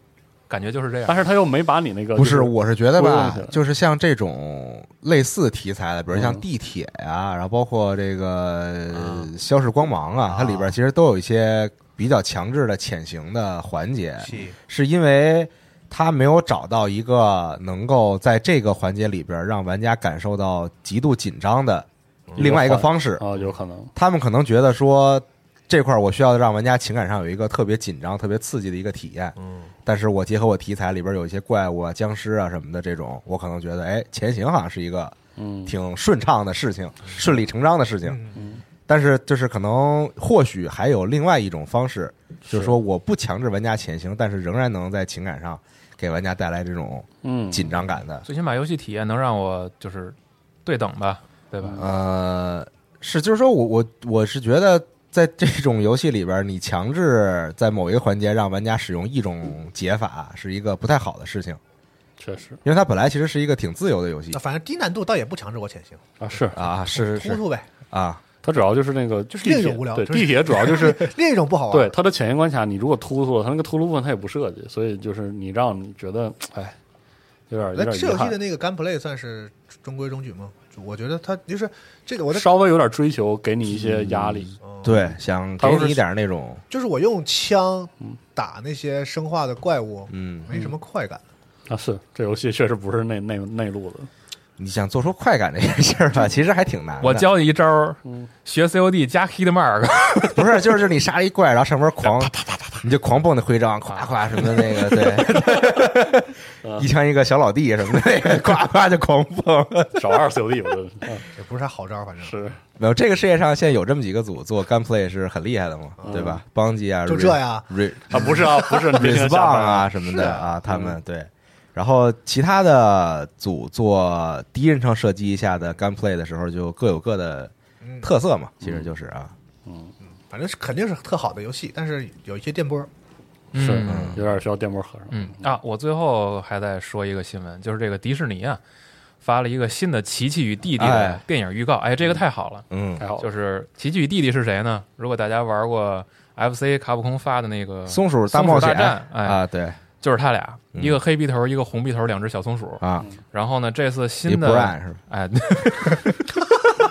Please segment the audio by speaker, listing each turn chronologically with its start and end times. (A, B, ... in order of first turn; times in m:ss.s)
0:00.5-0:01.3 A
0:01.1-0:03.6 B
0:02.2-0:23.2 C
0:06.1-0:06.4 B
0:08.9-0:09.3 A
0:10.3-0:10.8 D
0:14.2-0:14.6 D
0:22.4-0:23.9 B
0:23.9-0:29.3 C
0:29.4-0:29.7 D
0:29.8-0:38.2 C
0:35.4-0:35.7 B
0:38.1-0:38.4 D
0:38.3-0:38.6 B
0:38.9-0:48.2 C
0:42.5-0:42.8 B
0:47.2-0:47.7 B
0:48.2-0:51.9 A
0:51.8-1:01.6 C
1:02.2-1:02.6 B
1:02.6-1:04.4 C
1:04.3-1:07.6 D
1:06.2-1:06.6 B
1:06.5-1:08.2 C
1:08.4-1:11.2 B
1:09.3-1:11.9 D
1:11.7-1:16.8 B
1:17.5-1:18.4 B
1:17.7-1:22.4 D
1:22.3-1:24.6 B
1:23.7-1:26.6 C
1:24.6-1:25.1 D
1:25.6-1:26.0 B
1:26.7-1:31.2 D
1:30.1-1:30.5 C
1:31.7-1:34.1 B
1:34.6-1:37.3 C
1:37.0-1:40.4 A
1:38.0-1:38.3 B
1:40.3-1:50.1 C
1:42.0-1:42.8 A
1:43.9-1:44.2 A
1:46.6-1:46.9 B
1:49.9-1:51.3 B
1:51.3-1:52.4 D
1:52.2-1:52.6 B
1:52.8-2:09.3 C
1:56.0-1:56.2 D
1:56.0-1:56.4 B
1:57.1-1:58.2 D
1:58.1-1:59.9 B
2:00.1-2:00.5 D
2:00.7-2:01.0 B
2:07.8-2:08.1 D
2:08.6-2:08.9 B
2:09.6-2:09.9 B
2:10.3-2:12.9 D
2:13.5-2:14.1 A
2:13.5-2:15.4 B
2:13.8-2:14.2 C
2:15.1-2:18.6 A
2:19.2-2:22.6 A
2:20.8-2:21.2 C
2:22.7-2:23.0 C
2:23.0-2:23.3 B
2:23.2-2:29.4 A
2:27.9-2:29.8 C
2:30.0-2:36.2 A
2:30.7-2:31.0 C
2:32.8-2:33.1 C
2:34.3-2:35.0 C